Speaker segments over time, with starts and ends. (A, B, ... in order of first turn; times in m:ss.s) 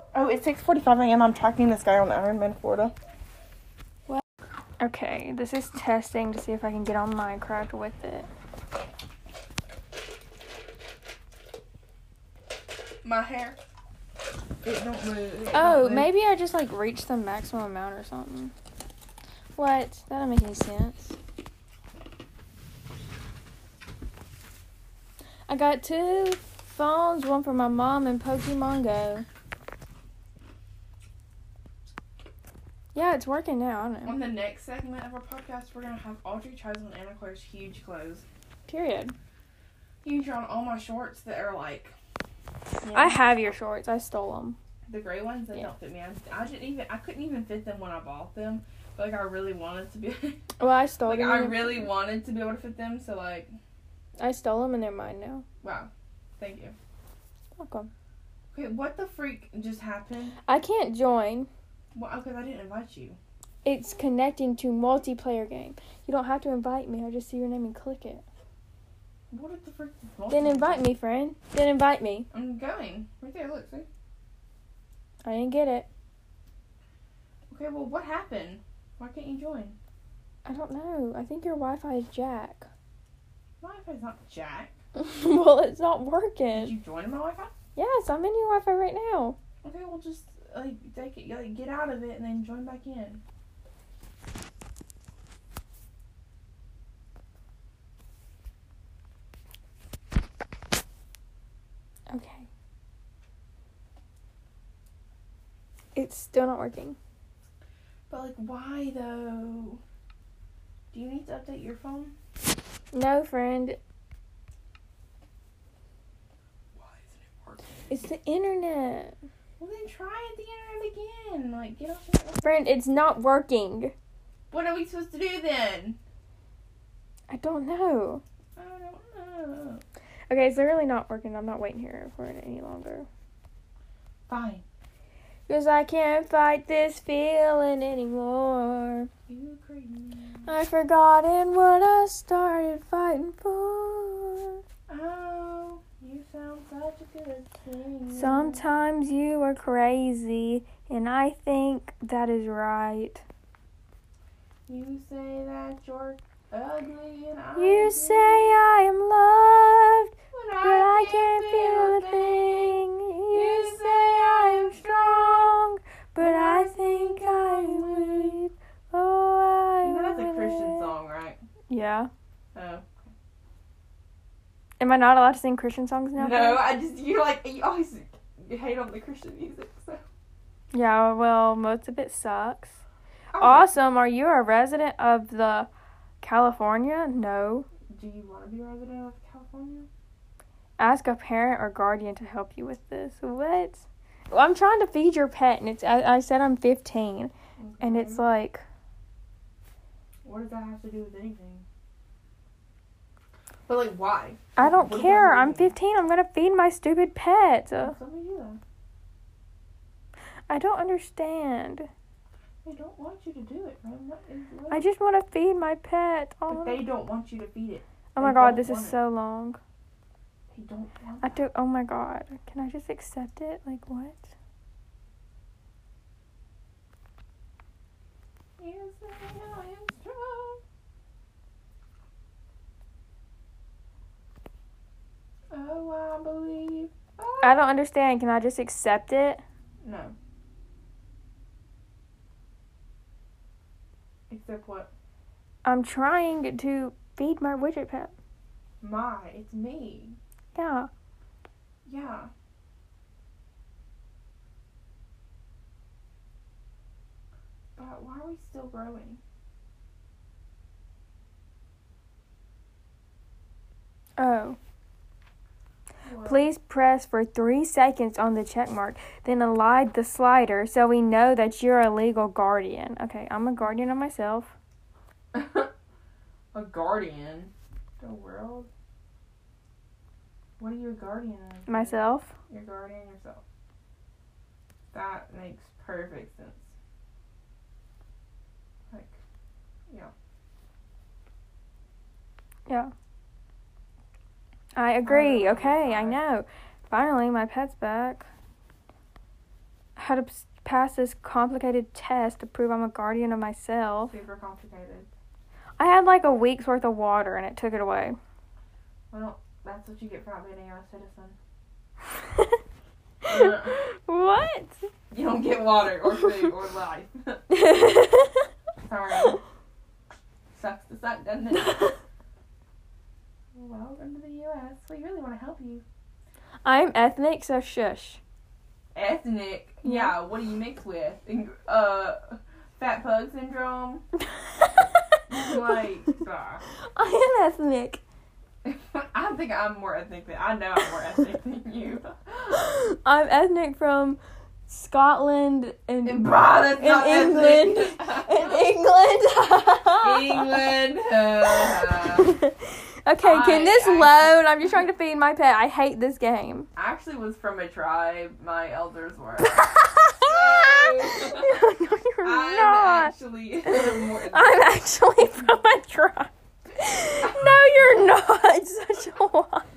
0:00.1-0:02.9 A
0:04.8-0:08.3 B
0:13.0-0:13.6 A
0:14.6-0:16.1 A
0:15.5-0:18.5 B
0:19.6-0:21.2 B
0:25.5-0:29.2 B
0:32.9-0:34.2 B
0:34.0-0:38.2 A
0:38.7-0:39.1 B
0:40.0-0:42.0 A
0:42.8-0:43.2 A
0:42.9-0:44.6 B
0:44.9-0:50.4 A
0:50.6-0:51.9 B
0:51.1-0:53.6 A
0:54.2-0:55.4 B
0:55.6-0:56.8 A
0:57.6-0:57.9 B
0:58.5-1:00.4 A
1:00.5-1:01.5 B
1:01.9-1:03.2 A
1:03.6-1:08.2 B
1:09.3-1:10.9 A
1:10.3-1:12.3 B
1:12.3-1:13.9 A
1:15.2-1:15.9 B
1:17.5-1:19.8 A
1:20.4-1:22.7 B
1:23.6-1:24.8 A
1:25.0-1:26.7 B
1:26.5-1:27.5 A
1:27.8-1:29.4 B
1:29.6-1:33.2 A
1:42.1-1:42.5 B
1:46.0-1:47.0 B
1:48.1-1:49.8 A
1:50.9-1:52.1 A
1:52.9-1:53.8 B
1:56.8-1:57.9 A
1:57.9-1:59.2 B
1:59.6-2:02.7 A
2:02.4-2:03.9 B
2:04.5-2:06.0 A
2:07.3-2:08.2 B
2:08.6-2:09.8 A
2:10.3-2:13.1 B
2:14.3-2:14.6 A
2:15.5-2:19.1 B
2:19.3-2:20.5 A
2:20.5-2:24.6 B
2:24.9-2:28.6 A
2:28.1-2:33.2 B
2:34.7-2:38.6 A
2:37.6-2:50.9 B
2:40.3-2:42.7 A
2:43.3-2:45.6 A
2:46.2-2:48.4 A
2:49.8-2:51.4 A
2:51.7-2:52.1 B
2:52.5-2:53.1 A
2:54.8-2:56.7 B
2:56.2-3:00.0 A
3:00.7-3:02.8 B
3:03.3-3:03.7 A
3:03.4-3:05.7 B
3:06.2-3:07.7 B
3:07.9-3:09.9 A
3:10.8-3:18.6 B
3:17.6-3:18.2 A
3:20.2-3:21.6 A
3:23.7-3:25.8 A
3:24.6-3:28.0 B
3:27.8-3:28.6 A
3:30.5-3:31.9 B
3:32.6-3:34.9 A
3:34.7-3:36.8 B
3:36.5-3:39.0 A
3:38.1-3:39.6 B
3:40.5-3:41.4 A
3:41.2-3:44.3 B
3:48.6-3:50.6 A
3:55.5-3:57.7 A
3:57.4-3:59.4 B
3:59.8-4:00.1 A
4:04.3-4:04.9 A
4:05.6-4:08.1 B
4:08.8-4:10.2 A
4:10.6-4:10.9 B
4:11.8-4:12.3 A
4:17.8-4:19.2 A
4:24.2-4:24.6 B
4:26.0-4:26.5 A
4:26.2-4:34.5 B
4:35.3-4:35.7 A
4:36.5-4:38.7 A
4:40.6-4:43.4 A
4:41.7-4:42.3 B
4:44.9-4:46.7 A
4:48.9-4:49.2 A
4:54.8-4:58.2 B
4:55.0-4:56.2 A
5:00.0-5:04.2 B
5:04.1-5:05.1 A
5:05.8-5:08.2 B
5:09.1-5:11.4 A
5:13.2-5:13.8 A
5:13.2-5:14.9 B
5:15.1-5:17.4 A
5:17.5-5:18.5 B
5:18.8-5:19.4 A
5:20.5-5:21.8 A
5:21.5-5:22.0 B
5:23.6-5:25.8 A
5:26.6-5:28.2 B
5:28.9-5:34.0 A
5:29.8-5:30.2 B
5:35.3-5:36.6 A
5:36.9-5:38.0 B
5:38.6-5:42.7 A
5:42.6-5:50.6 B
5:46.0-5:48.6 A
5:50.0-5:52.3 A
5:51.9-5:56.7 B
5:53.2-5:54.7 A
5:56.8-5:59.6 A
5:59.6-6:03.1 B
6:00.2-6:01.6 A
6:02.2-6:04.7 A
6:03.7-6:09.6 B
6:07.2-6:07.7 A